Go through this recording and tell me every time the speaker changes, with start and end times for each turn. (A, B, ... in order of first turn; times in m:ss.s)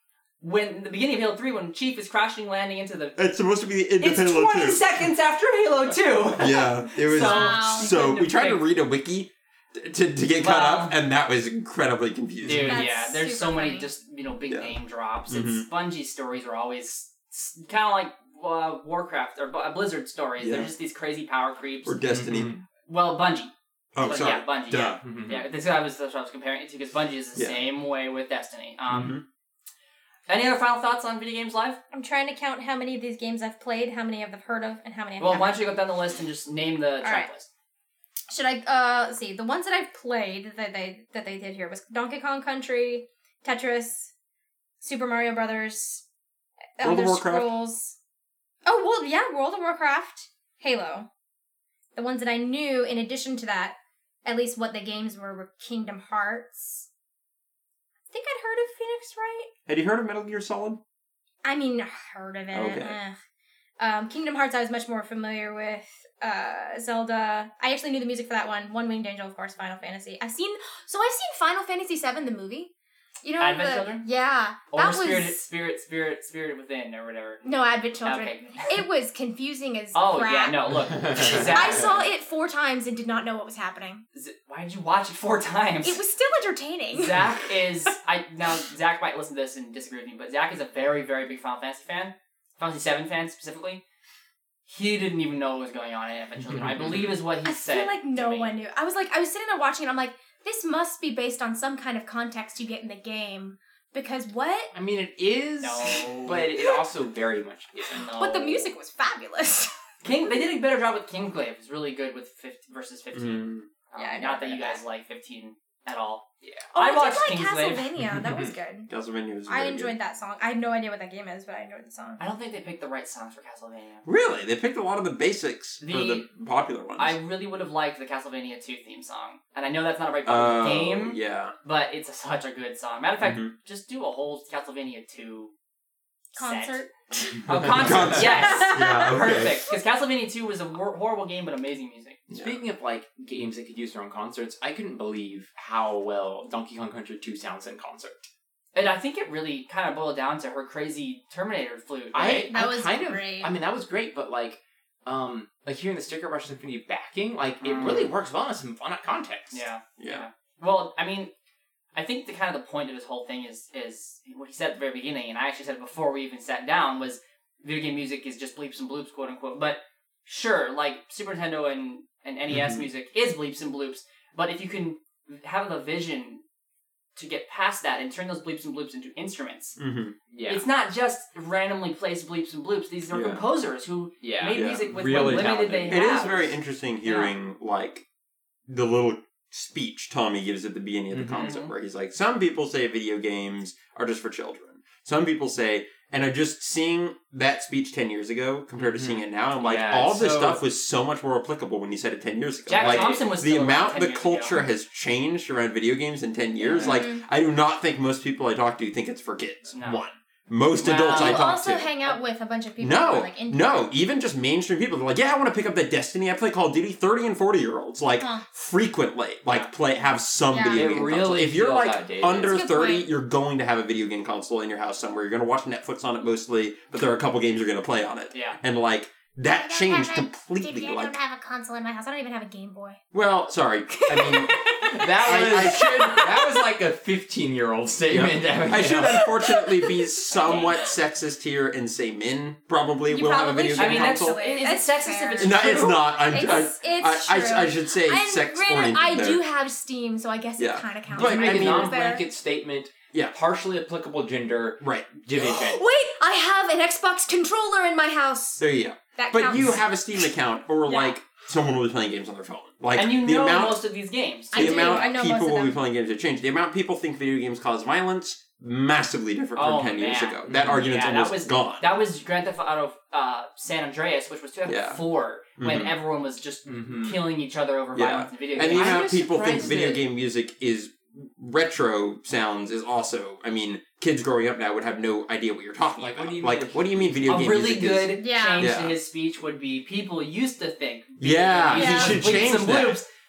0:00.4-0:03.2 A
0:03.2-0:04.8 B
0:04.0-0:08.6 A
0:06.4-0:12.9 B
0:07.0-0:07.9 C
0:10.4-0:11.0 A
0:12.4-0:12.8 D
0:12.4-0:22.0 A
0:12.7-0:13.9 C
0:14.5-0:14.7 B
0:15.3-0:15.6 B
0:20.4-0:20.7 B
0:21.8-0:22.5 B
0:22.1-0:22.6 D
0:22.9-0:23.5 A
0:23.9-0:25.0 B
0:24.0-0:29.2 A
0:25.0-0:25.4 D
0:27.4-0:27.6 B
0:28.9-0:29.2 B
0:30.3-0:31.8 A
0:31.9-0:35.6 C
0:35.2-0:37.5 A
0:37.0-0:37.3 C
0:38.3-0:44.1 C
0:44.8-0:46.0 C
0:46.8-0:48.0 C
0:46.8-0:47.5 B
0:48.6-0:51.1 C
0:51.9-0:56.9 C
0:58.1-0:59.5 C
0:59.7-1:00.8 B
1:01.4-1:03.2 C
1:02.5-1:03.0 B
1:03.8-1:12.7 C
1:13.2-1:15.4 C
1:13.4-1:14.0 A
1:14.7-1:18.8 A
1:17.4-1:24.0 C
1:19.9-1:22.0 A
1:21.1-1:21.7 D
1:24.1-1:26.0 A
1:25.8-1:27.2 C
1:26.9-1:33.8 A
1:34.7-1:38.5 A
1:36.5-1:37.1 D
1:37.4-1:44.7 C
1:44.7-1:48.1 D
1:45.6-1:46.4 A
1:47.9-1:48.7 A
1:48.2-1:49.7 C
1:50.0-1:57.9 A
1:53.1-1:53.7 B
1:54.0-1:54.8 C
1:56.4-1:56.7 D
1:56.7-1:58.9 C
1:58.1-1:58.5 D
1:58.9-1:59.9 B
1:59.5-2:02.2 C
2:02.2-2:04.0 A
2:04.0-2:07.2 B
2:05.8-2:06.2 A
2:07.0-2:15.5 A
2:10.2-2:11.5 B
2:13.2-2:13.5 B
2:16.4-2:17.4 C
2:16.4-2:16.8 A
2:17.5-2:22.2 A
2:17.5-2:18.2 D
2:17.7-2:19.6 B
2:18.2-2:19.2 C
2:22.3-2:22.6 B
2:22.3-2:28.3 D
2:28.7-2:32.5 A
2:32.1-2:39.6 D
2:32.2-2:33.5 C
2:37.6-2:38.1 A
2:37.8-2:38.1 B
2:39.5-2:41.3 A
2:40.0-2:40.2 B
2:41.9-2:56.4 A
2:52.5-2:52.9 B
2:57.2-2:59.8 A
2:59.8-3:00.2 B
3:00.3-3:00.6 D
3:00.4-3:06.4 A
3:03.1-3:03.4 B
3:04.2-3:06.5 D
3:04.5-3:08.0 B
3:07.0-3:07.3 A
3:08.7-3:32.2 B
3:11.1-3:11.5 D
3:11.4-3:11.7 A
3:18.8-3:20.6 D
3:22.7-3:24.5 A
3:22.7-3:23.2 D
3:26.6-3:27.0 D
3:26.7-3:27.0 A
3:26.8-3:27.2 C
3:29.7-3:30.0 A
3:30.8-3:31.5 A
3:31.1-3:33.9 C
3:32.8-3:51.2 B
3:38.2-3:38.4 C
3:40.5-3:40.9 C
3:40.7-3:42.6 D
3:42.4-3:43.1 C
3:48.3-3:48.6 A
3:49.5-3:53.0 C
3:53.1-3:54.6 B
3:53.9-3:56.7 C
3:54.1-3:59.2 D
3:55.2-3:56.2 B
3:58.1-4:04.4 B
3:59.0-4:00.7 C
4:03.1-4:12.2 C
4:03.8-4:06.0 A
4:05.4-4:09.4 B
4:10.6-4:11.9 B
4:11.1-4:15.8 D
4:14.8-4:15.1 B
4:15.3-4:20.2 C
4:18.6-4:23.8 B
4:20.8-4:21.2 C
4:22.9-4:25.1 A
4:24.5-4:25.8 C
4:24.5-4:31.9 B
4:29.6-4:39.1 A
4:30.5-4:30.8 D
4:34.7-4:35.0 B
4:35.6-4:35.9 B
4:36.6-4:37.2 D
4:37.9-4:49.0 B
4:38.6-4:40.0 D
4:46.0-4:47.6 D
4:47.2-4:53.0 A
4:48.2-4:48.7 C
4:51.2-4:53.0 B
4:51.7-4:52.2 C